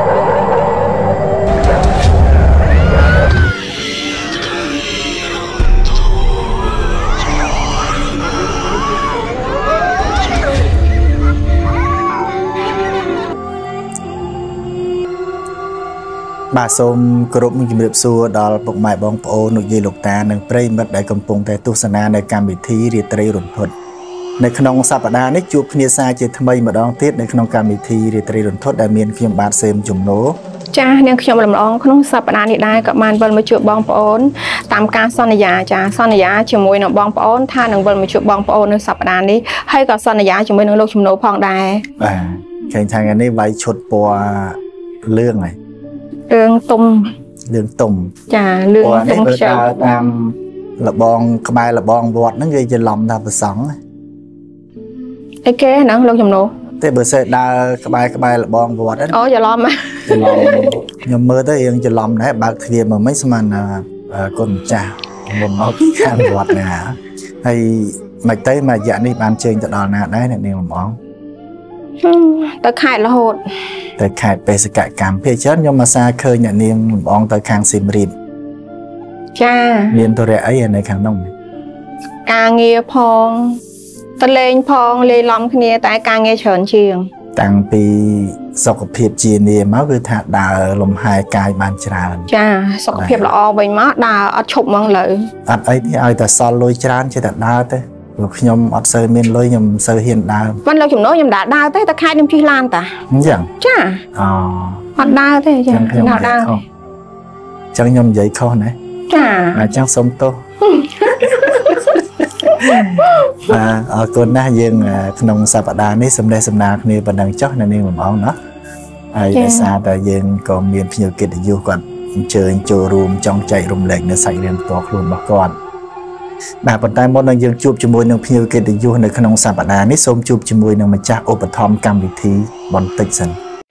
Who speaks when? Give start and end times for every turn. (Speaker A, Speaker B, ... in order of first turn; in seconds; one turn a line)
Speaker A: 16.5-23.7
Speaker A: 24.4-30.4
Speaker B: 30.7-41.9
Speaker A: 42.0-45.5
Speaker B: 46.3-47.1
Speaker A: 47.5-48.1
Speaker B: 48.3-50.0
Speaker A: 48.8-53.8
Speaker B: 55.4-56.5
Speaker A: 56.8-59.2
Speaker B: 59.1-60.7
Speaker A: 60.0-71.0
Speaker B: 72.0-73.4
Speaker A: 74.0-78.1
Speaker B: 79.3-80.0
Speaker A: 79.9-81.3
Speaker B: 82.2-83.6
Speaker B: 84.2-87.1
Speaker A: 87.3-92.3
Speaker B: 92.3-95.3
Speaker A: 92.9-93.3
Speaker A: 95.5-100.6
Speaker B: 100.6-103.0
Speaker A: 103.1-103.5
Speaker B: 103.6-104.0
Speaker A: 104.1-104.9
Speaker B: 105.0-106.5
Speaker A: 105.7-106.6
Speaker A: 107.7-108.8
Speaker B: 109.1-109.7
Speaker A: 109.5-110.4
Speaker B: 110.7-112.0
Speaker A: 111.2-111.6
Speaker A: 112.5-118.3
Speaker B: 112.5-113.4
Speaker A: 119.1-125.5
Speaker B: 119.3-119.7
Speaker A: 126.6-133.4